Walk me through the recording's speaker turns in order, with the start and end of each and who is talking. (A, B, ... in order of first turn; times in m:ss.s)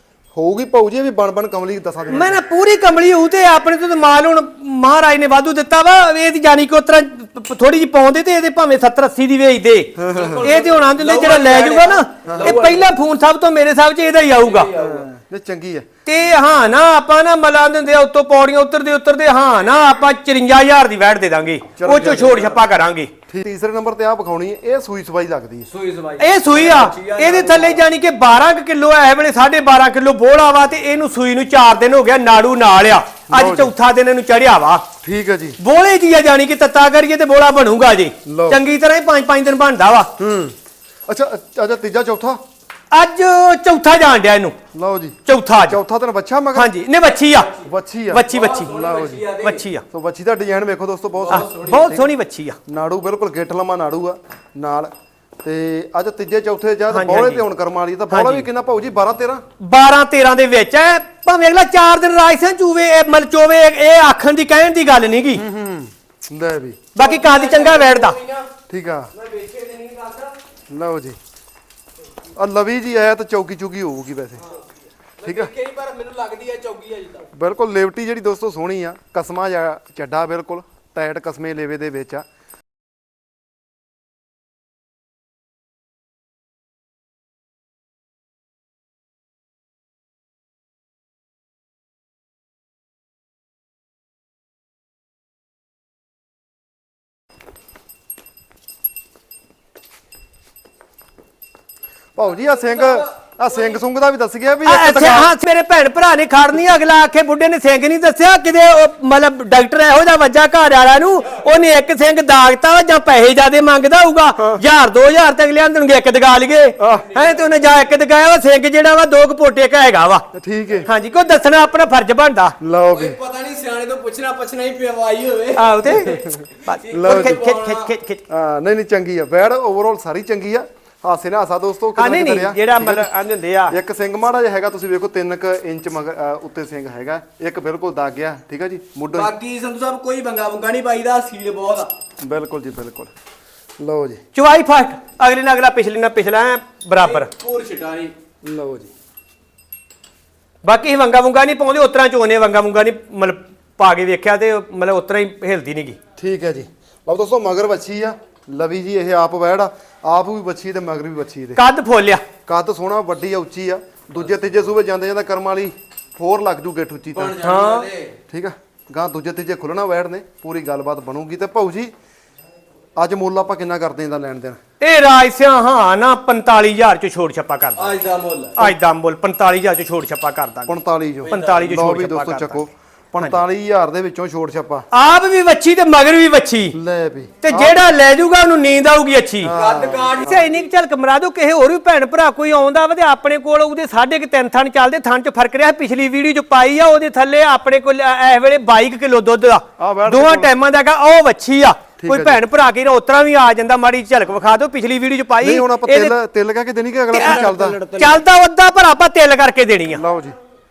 0:00.3-0:02.4 A
0:02.1-0:14.7 B
0:10.0-0:10.6 A
0:10.1-0:12.9 C
0:12.2-0:12.6 A
0:14.3-0:15.1 C
0:14.7-0:15.9 A
0:16.1-0:23.1 B
0:21.8-0:22.6 A
0:23.3-0:25.7 A
0:25.7-0:27.8 C
0:26.2-0:34.8 B
0:33.3-0:33.7 A
0:35.0-0:35.6 A
0:35.6-0:40.1 B
0:38.3-0:38.6 A
0:40.2-0:40.6 A
0:41.1-0:42.4 A
0:42.9-0:44.6 B
0:44.7-0:46.7 A
0:45.3-0:45.8 B
0:46.5-0:47.5 B
0:47.2-0:47.7 C
0:47.6-0:49.3 A
0:48.1-0:48.7 B
0:48.3-0:49.6 C
0:49.4-0:49.8 B
0:49.9-0:52.1 A
0:51.2-0:51.9 C
0:51.3-0:52.6 B
0:52.7-0:54.9 A
0:55.4-0:59.4 A
0:56.9-0:57.4 B
0:58.1-0:58.5 B
0:59.6-1:05.4 B
1:05.4-1:06.8 A
1:07.0-1:08.2 B
1:07.0-1:08.6 C
1:08.7-1:09.1 A
1:09.1-1:10.4 C
1:10.7-1:11.2 A
1:12.4-1:14.5 A
1:14.4-1:14.7 C
1:15.2-1:17.3 C
1:15.2-1:15.5 A
1:17.3-1:22.2 A
1:42.2-1:45.4 A
1:42.3-1:43.8 C
1:44.6-2:00.2 B
1:54.4-1:54.6 A
1:56.8-1:57.1 A
1:56.9-1:57.7 C
2:00.3-2:00.9 A
2:00.9-2:02.6 B
2:02.6-2:03.2 A
2:02.9-2:07.9 C
2:05.6-2:08.2 B
2:06.1-2:07.4 A
2:08.3-2:13.1 A
2:12.0-2:13.8 B
2:13.7-2:19.3 A
2:19.1-2:21.9 C
2:22.2-2:23.1 A
2:23.8-2:24.2 A
2:24.4-2:27.3 B
2:27.0-2:28.1 C
2:28.4-2:28.9 A
2:30.6-2:36.0 B
2:36.2-2:41.6 A
2:41.6-2:42.2 B
2:42.5-2:47.4 A
2:47.2-2:48.2 C
2:47.4-2:47.9 B
2:48.3-2:51.9 A
2:53.0-2:54.6 A
2:54.8-2:58.0 B
2:57.8-2:58.6 C
2:58.6-3:00.8 B
3:00.7-3:04.9 A
3:01.2-3:01.7 C
3:01.3-3:02.6 B
3:04.9-3:06.8 B
3:06.7-3:07.9 A
3:07.4-3:09.5 B
3:09.4-3:10.5 A
3:09.5-3:10.6 C
3:10.2-3:26.1 B
3:19.8-3:20.5 A
3:22.0-3:22.4 A
3:25.4-3:27.8 A
3:27.1-3:30.0 B
3:27.2-3:28.2 C
3:29.9-3:30.4 A